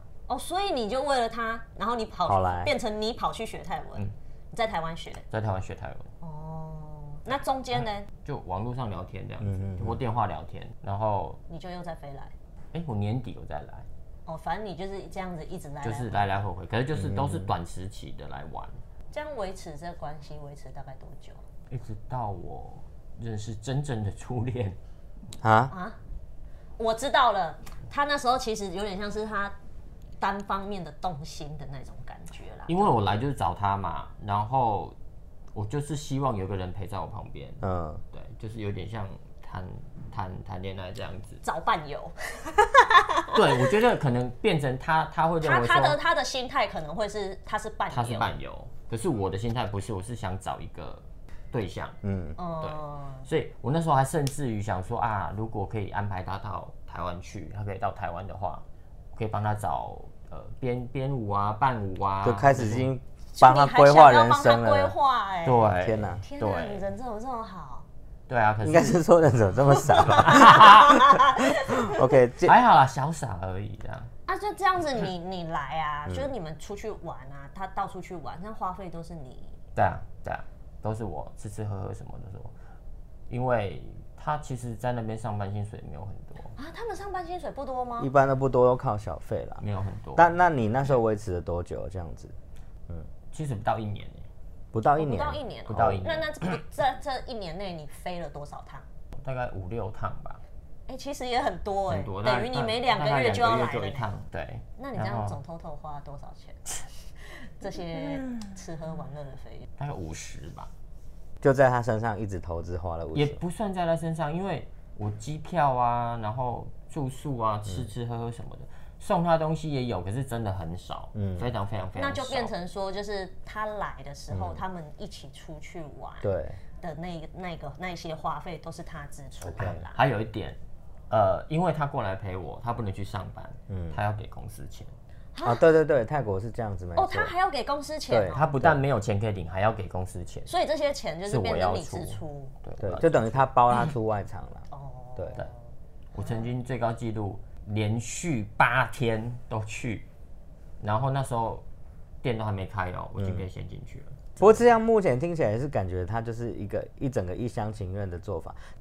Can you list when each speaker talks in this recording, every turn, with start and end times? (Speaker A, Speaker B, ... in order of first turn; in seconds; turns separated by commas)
Speaker A: 0.3-5.2, Speaker B: 2.3-2.7, Speaker C: 5.3-6.1, Speaker A: 6.2-8.1, Speaker C: 7.8-11.4, Speaker B: 9.4-10.0, Speaker A: 11.5-12.3, Speaker C: 12.7-13.9, Speaker A: 14.3-16.4, Speaker C: 15.8-18.8, Speaker B: 16.9-17.5, Speaker A: 19.1-21.4, Speaker C: 21.7-24.8, Speaker B: 25.4-25.7, Speaker A: 25.7-26.0, Speaker A: 26.8-29.6, Speaker A: 30.2-33.0, Speaker C: 32.7-35.0, Speaker C: 35.5-41.4, Speaker B: 37.6-38.0, Speaker A: 41.4-43.4, Speaker C: 43.3-46.0, Speaker A: 45.4-48.3, Speaker C: 47.9-52.0, Speaker B: 52.0-52.4, Speaker A: 52.4-53.3, Speaker C: 52.6-62.9, Speaker B: 62.2-65.0, Speaker A: 63.3-65.7, Speaker C: 65.5-66.8, Speaker B: 65.8-66.2, Speaker A: 66.2-67.9, Speaker C: 68.3-69.0, Speaker B: 68.6-72.5, Speaker A: 69.8-72.0, Speaker C: 70.1-71.0, Speaker C: 72.4-74.1, Speaker A: 74.3-79.6, Speaker C: 79.8-82.5, Speaker C: 83.3-86.5, Speaker A: 86.6-88.1, Speaker B: 88.0-89.6, Speaker C: 89.6-90.3, Speaker B: 90.2-92.3, Speaker C: 93.3-94.3, Speaker B: 94.7-95.4, Speaker A: 95.0-98.9, Speaker C: 95.7-96.6, Speaker C: 99.2-100.4, Speaker A: 100.9-104.1, Speaker C: 101.9-105.4, Speaker A: 104.8-109.7, Speaker C: 109.8-110.7, Speaker B: 111.4-113.4, Speaker C: 113.1-122.5, Speaker B: 121.2-121.5, Speaker A: 122.0-126.3, Speaker B: 124.3-124.6, Speaker B: 126.2-126.6, Speaker A: 126.8-130.0, Speaker B: 129.4-129.8, Speaker C: 129.6-130.6, Speaker C: 131.1-134.9, Speaker B: 133.7-134.0, Speaker A: 135.3-135.6, Speaker B: 135.4-137.3, Speaker A: 136.9-138.7, Speaker B: 138.1-138.8, Speaker C: 138.3-140.5, Speaker A: 140.5-142.6, Speaker C: 141.3-143.9, Speaker B: 142.8-144.7, Speaker A: 144.7-145.6, Speaker C: 146.1-150.1, Speaker A: 146.2-146.5, Speaker C: 150.8-151.6, Speaker C: 152.2-154.7, Speaker B: 153.2-153.5, Speaker B: 154.4-158.6